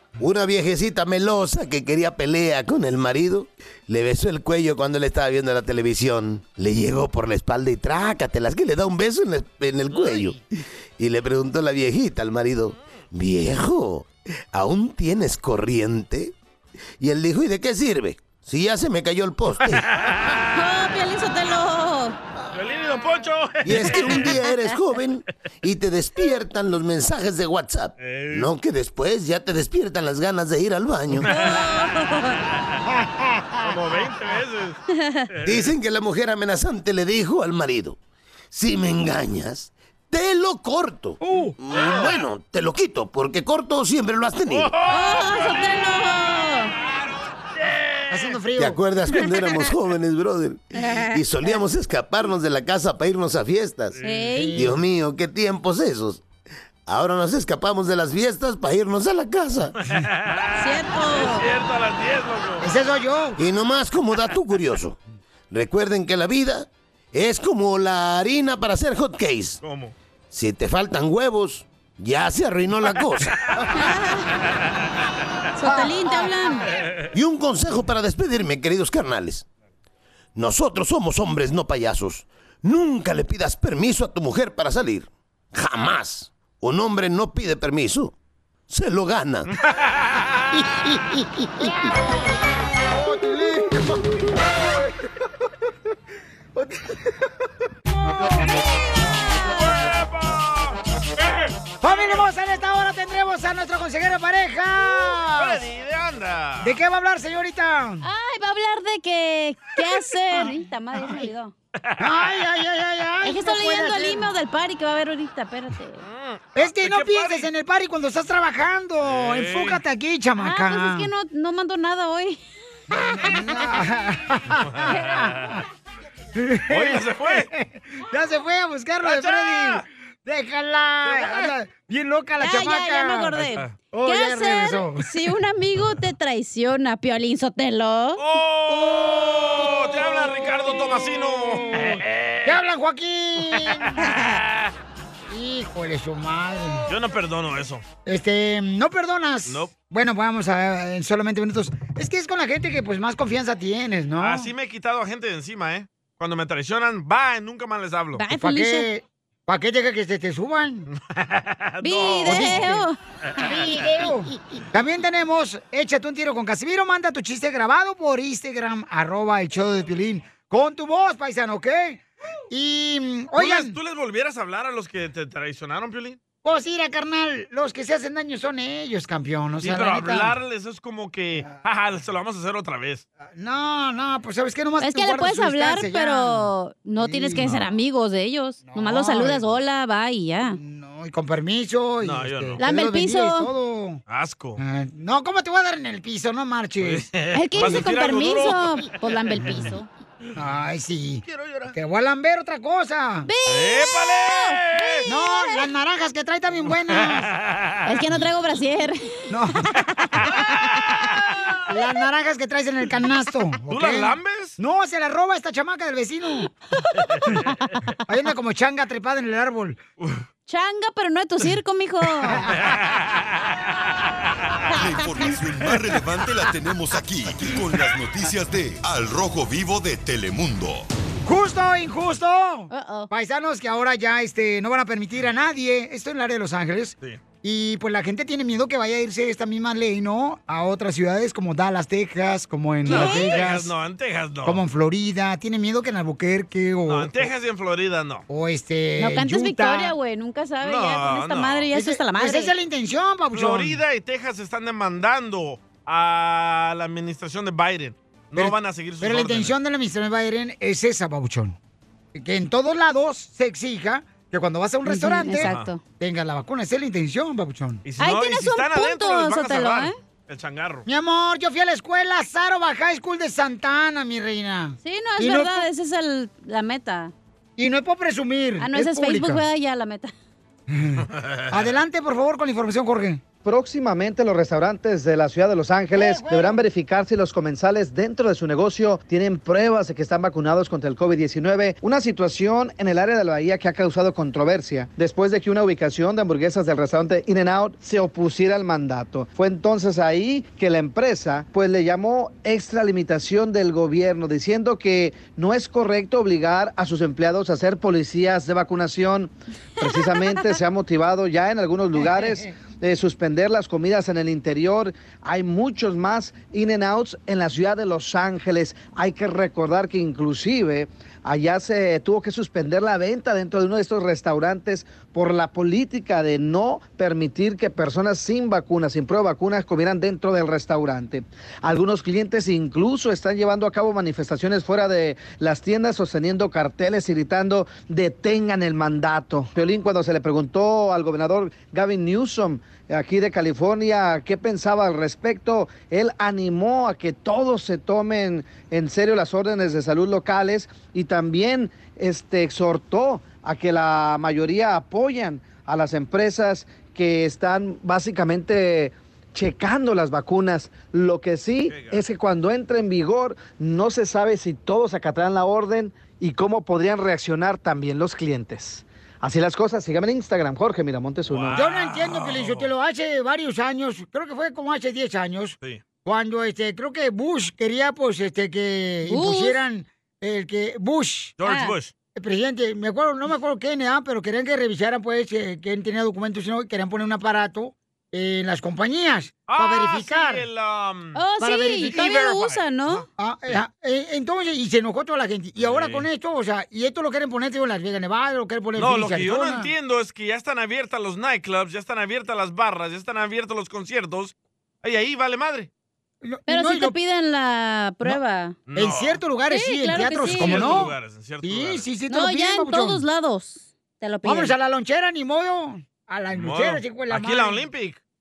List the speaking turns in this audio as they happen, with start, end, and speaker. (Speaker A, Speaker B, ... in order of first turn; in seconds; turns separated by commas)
Speaker A: 0.2-10.4, Speaker B: 9.9-10.3, Speaker A: 11.0-16.3, Speaker A: 17.0-19.9, Speaker B: 19.8-20.5, Speaker C: 20.5-22.2, Speaker B: 22.5-24.4, Speaker A: 23.6-31.3, Speaker B: 28.0-28.5, Speaker B: 31.2-31.9, Speaker C: 31.2-32.4, Speaker D: 32.9-33.7, Speaker B: 33.6-34.8, Speaker C: 34.9-35.3, Speaker B: 35.4-35.7, Speaker A: 35.4-38.0, Speaker A: 38.5-44.8, Speaker D: 41.2-41.5, Speaker B: 44.5-45.6, Speaker C: 44.8-46.7, Speaker B: 47.5-48.2, Speaker D: 48.1-48.8, Speaker A: 48.6-54.0, Speaker C: 50.8-51.2, Speaker B: 54.0-54.2, Speaker C: 54.0-54.7, Speaker D: 54.3-54.8, Speaker A: 54.5-56.2, Speaker A: 56.9-59.8, Speaker B: 59.8-62.7, Speaker C: 60.5-61.5, Speaker D: 62.6-63.4, Speaker A: 63.4-65.0, Speaker A: 65.5-69.6, Speaker B: 69.6-69.9, Speaker A: 70.3-73.6, Speaker C: 73.7-74.3, Speaker C: 75.6-76.7, Speaker A: 77.1-79.4, Speaker A: 80.3-88.1, Speaker A: 88.7-89.5, Speaker B: 89.6-90.6, Speaker D: 91.1-91.7, Speaker D: 93.1-93.7, Speaker C: 98.5-99.7, Speaker B: 99.3-100.8, Speaker D: 101.8-105.6, Speaker B: 105.4-106.8, Speaker D: 106.6-108.0, Speaker C: 108.0-111.5, Speaker B: 111.8-112.3, Speaker D: 112.0-114.3, Speaker C: 113.2-116.0, Speaker B: 116.0-117.5, Speaker D: 116.5-121.1, Speaker B: 119.0-119.8, Speaker C: 120.4-122.4, Speaker D: 122.9-125.6, Speaker C: 123.2-123.5, Speaker B: 124.6-125.5, Speaker D: 126.3-133.3, Speaker B: 126.7-127.5, Speaker B: 129.0-129.8, Speaker B: 131.0-131.5, Speaker C: 132.4-138.2, Speaker B: 133.4-133.7, Speaker D: 133.9-135.1, Speaker B: 138.2-142.6, Speaker D: 141.5-144.0, Speaker B: 143.5-144.7, Speaker D: 145.3-146.9, Speaker B: 146.9-147.8, Speaker D: 148.1-154.5, Speaker B: 154.2-158.2, Speaker C: 158.2-158.9, Speaker D: 158.3-160.9, Speaker B: 160.9-162.7, Speaker C: 161.8-163.0, Speaker D: 162.2-162.8, Speaker D: 163.4-173.8, Speaker B: 163.4-163.7, Speaker B: 173.4-176.2, Speaker D: 176.4-180.3, Speaker B: 179.6-183.0, Speaker D: 183.3-187.5, Speaker C: 184.8-190.6, Speaker D: 188.6-189.5, Speaker D: 190.5-194.0, Speaker B: 192.0-192.6, Speaker C: 192.6-193.5, Speaker B: 194.1-194.6, Speaker D: 194.6-197.1, Speaker B: 196.8-198.7, Speaker C: 197.3-199.9, Speaker D: 200.3-203.3, Speaker B: 201.2-201.7, Speaker C: 203.2-205.7, Speaker B: 203.5-205.1, Speaker D: 205.1-207.3, Speaker B: 207.2-207.9, Speaker C: 207.8-211.2, Speaker D: 209.3-209.7, Speaker D: 211.7-216.5, Speaker B: 213.7-214.6, Speaker D: 218.1-219.8, Speaker C: 220.5-222.5, Speaker B: 222.6-223.0, Speaker E: 224.7-230.8, Speaker D: 231.2-243.7, Speaker C: 232.7-233.1, Speaker C: 242.8-243.4, Speaker B: 242.9-244.6, Speaker D: 244.4-247.3, Speaker B: 246.9-248.2, Speaker D: 248.3-249.9, Speaker C: 249.0-252.5, Speaker B: 250.6-251.7, Speaker D: 251.7-253.8, Speaker B: 253.3-259.5, Speaker D: 258.3-261.6, Speaker D: 262.1-267.8, Speaker C: 264.9-265.8, Speaker B: 265.4-265.7, Speaker B: 267.8-270.8, Speaker C: 268.0-269.9, Speaker D: 270.9-275.6, Speaker C: 274.8-277.1, Speaker D: 277.6-279.4, Speaker C: 278.6-280.1, Speaker D: 280.7-283.2, Speaker B: 281.1-281.6, Speaker F: 283.4-371.6, Speaker D: 285.9-286.6, Speaker B: 361.7-362.0, Speaker B: 371.3-372.7, Speaker D: 371.5-381.4, Speaker C: 379.1-379.6, Speaker B: 381.4-381.9, Speaker C: 381.4-381.7, Speaker D: 382.1-390.4, Speaker B: 389.5-391.2, Speaker C: 391.1-393.1, Speaker D: 391.4-392.3, Speaker B: 391.9-393.6, Speaker D: 393.2-399.7, Speaker B: 395.6-396.1, Speaker B: 398.8-405.7, Speaker D: 406.2-406.9, Speaker C: 406.5-408.6, Speaker B: 408.7-409.2, Speaker D: 408.7-413.0, Speaker C: 409.5-410.9, Speaker B: 410.2-411.9, Speaker C: 412.1-414.5, Speaker D: 414.2-417.7, Speaker B: 416.3-418.0